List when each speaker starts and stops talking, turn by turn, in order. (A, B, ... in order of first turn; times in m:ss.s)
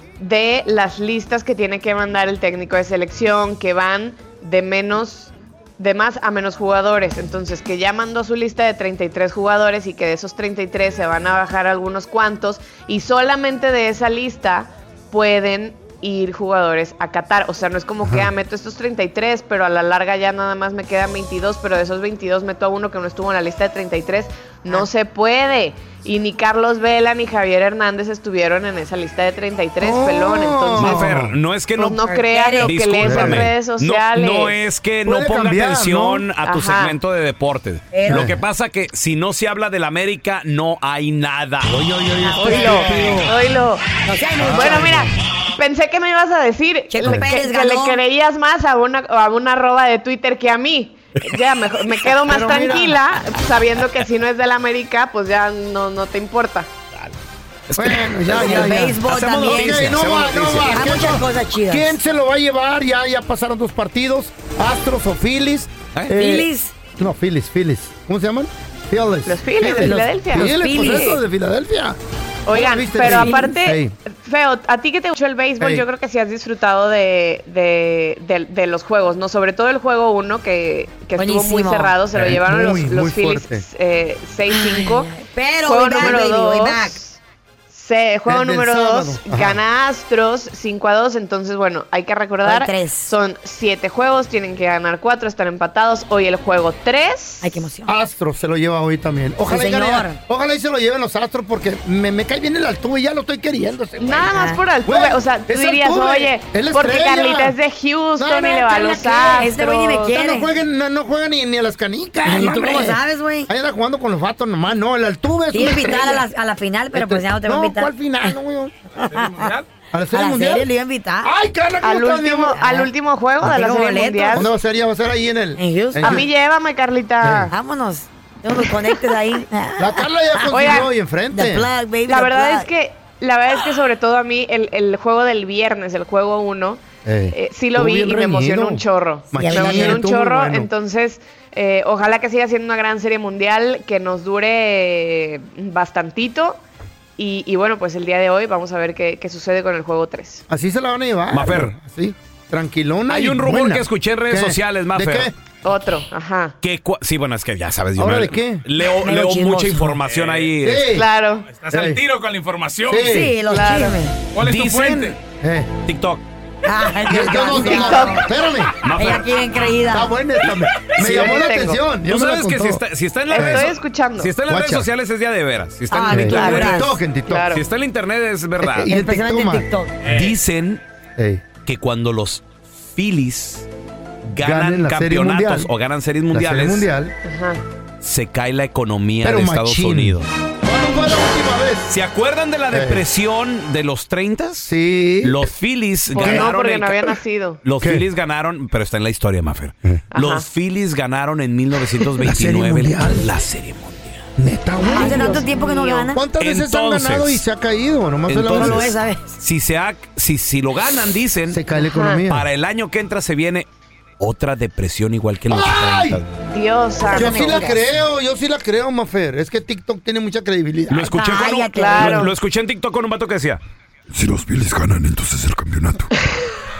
0:00.2-0:31.0 A
0:18.0-0:18.3 B
0:29.8-0:31.3 B
0:30.8-0:41.8 C
0:31.7-0:34.6 A
0:32.0-0:32.8 D
0:33.0-0:33.5 B
0:35.0-0:36.3 B
0:36.4-0:37.0 A
0:37.9-0:38.3 D
0:38.1-0:38.4 B
0:41.6-0:43.3 B
0:42.3-0:42.8 D
0:42.3-0:43.9 A
0:44.0-0:45.0 D
0:44.4-0:45.1 B
0:44.4-0:56.7 A
0:46.9-0:48.0 D
0:47.0-0:47.3 B
0:52.2-0:53.0 B
0:57.7-1:00.8 C
0:57.8-1:12.0 B
0:58.3-0:59.9 D
1:00.7-1:02.0 D
1:06.1-1:06.7 D
1:09.2-1:11.2 A
1:09.7-1:11.2 D
1:12.4-1:27.2 A
1:12.5-1:13.9 B
1:13.0-1:13.6 D
1:15.6-1:15.8 B
1:21.2-1:22.0 D
1:22.1-1:23.6 B
1:24.5-1:27.0 D
1:26.0-1:26.2 B
1:27.7-1:37.4 A
1:28.3-1:29.6 B
1:32.4-1:33.1 D
1:37.4-1:37.9 D
1:37.8-1:47.6 B
1:39.5-1:40.2 D
1:44.0-1:50.1 A
1:44.2-1:44.6 D
1:48.2-1:49.5 B
1:48.9-1:50.5 D
1:50.1-1:56.3 B
1:52.2-1:53.5 D
1:55.5-1:58.3 D
1:56.9-1:58.7 B
1:59.1-1:59.5 D
1:59.1-1:59.6 E
1:59.9-2:00.7 B
2:00.1-2:01.3 D
2:01.2-2:02.9 B
2:01.8-2:04.4 A
2:02.6-2:02.9 D
2:03.4-2:04.5 D
2:04.3-2:06.3 B
2:05.6-2:06.2 D
2:06.0-2:07.5 A
2:07.2-2:07.5 B
2:07.5-2:12.7 D
2:09.8-2:11.7 B
2:10.5-2:10.9 A
2:12.1-2:26.6 A
2:17.0-2:20.7 B
2:19.4-2:20.0 D
2:27.2-2:30.4 A
2:30.5-2:35.3 B
2:31.3-2:31.7 C
2:33.1-2:35.3 C
2:35.6-2:36.6 A
2:36.6-2:40.9 C
2:38.0-2:38.6 B
2:39.0-2:40.0 D
2:40.0-2:40.5 E
2:40.6-2:41.1 B
2:40.9-2:41.5 A
2:41.5-2:43.1 E
2:41.7-2:42.0 B
2:42.9-2:43.4 B
2:43.0-2:44.2 D
2:43.5-2:44.0 A
2:44.3-2:45.2 E
2:44.4-2:45.2 C
2:45.4-2:45.7 B
2:45.8-2:46.2 C
2:46.6-2:48.2 D
2:47.1-2:48.7 B
2:47.7-2:48.1 A
2:48.8-2:49.3 C
2:48.9-2:50.1 D
2:49.9-2:52.8 B
2:50.5-2:51.4 C
2:51.0-2:51.8 A
2:52.0-2:57.0 C
2:53.3-2:54.3 A
2:53.3-2:53.7 B
2:54.4-2:54.9 B
2:55.9-2:57.0 D
2:56.1-2:57.5 B
2:57.2-2:57.6 A
2:57.5-2:58.9 C
2:58.6-2:59.7 B
2:58.8-3:00.0 D
3:00.0-3:00.4 E
3:00.0-3:00.8 C
3:01.2-3:01.4 B
3:01.6-3:03.7 C
3:04.2-3:06.9 C
3:04.4-3:05.7 B
3:06.3-3:07.1 B
3:07.2-3:07.6 A
3:08.0-3:10.3 C
3:09.2-3:11.9 B
3:11.9-3:24.3 C
3:12.7-3:13.0 B
3:14.6-3:15.4 B
3:16.1-3:17.6 A
3:16.2-3:16.5 B
3:20.1-3:20.5 A
3:22.2-3:23.2 B
3:24.4-3:25.4 B
3:24.8-3:26.2 D
3:24.9-3:26.1 A
3:26.1-3:28.9 B
3:26.4-3:27.4 C
3:28.3-3:31.6 C
3:28.5-3:29.3 D
3:31.5-3:32.4 B
3:31.8-3:32.2 A
3:32.2-3:33.7 C
3:34.2-3:36.3 C
3:35.5-3:36.2 B
3:36.5-3:37.6 A
3:37.1-3:37.8 D
3:37.1-3:41.2 B
3:40.9-3:43.6 C
3:41.1-3:42.3 D
3:41.7-3:42.3 A
3:44.1-3:46.1 F